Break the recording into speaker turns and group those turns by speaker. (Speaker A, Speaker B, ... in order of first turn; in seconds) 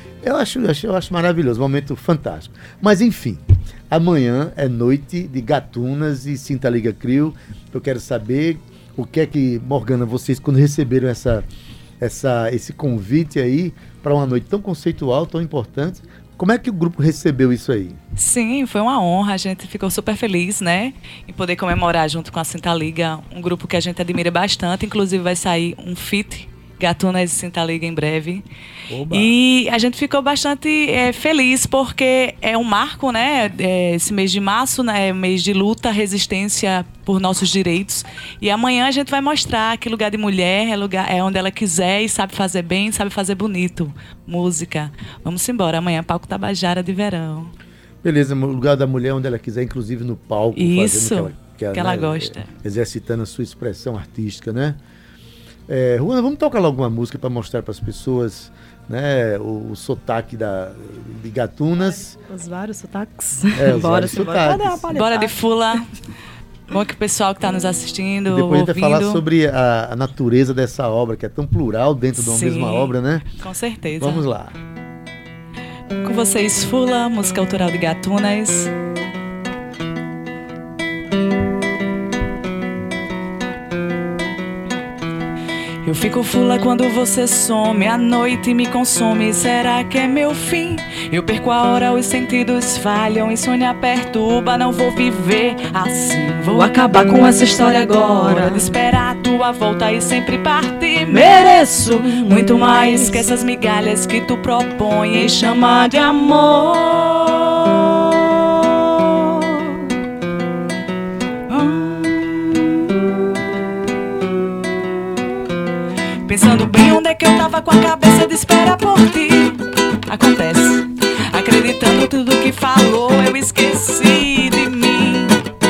Speaker A: 0.2-11.4, 12.0-18.0, 28.9-29.3, 48.0-54.8, 55.7-62.1, 63.5-64.8, 68.3-73.3, 74.0-74.5
Speaker B: 18.1-28.4, 29.1-47.5, 50.5-52.5, 64.9-65.9, 66.7-69.2, 72.2-74.2, 76.0-78.7, 85.8-107.9, 111.5-112.6, 116.2-125.4
Speaker C: 62.3-65.3, 96.5-98.7, 101.2-103.2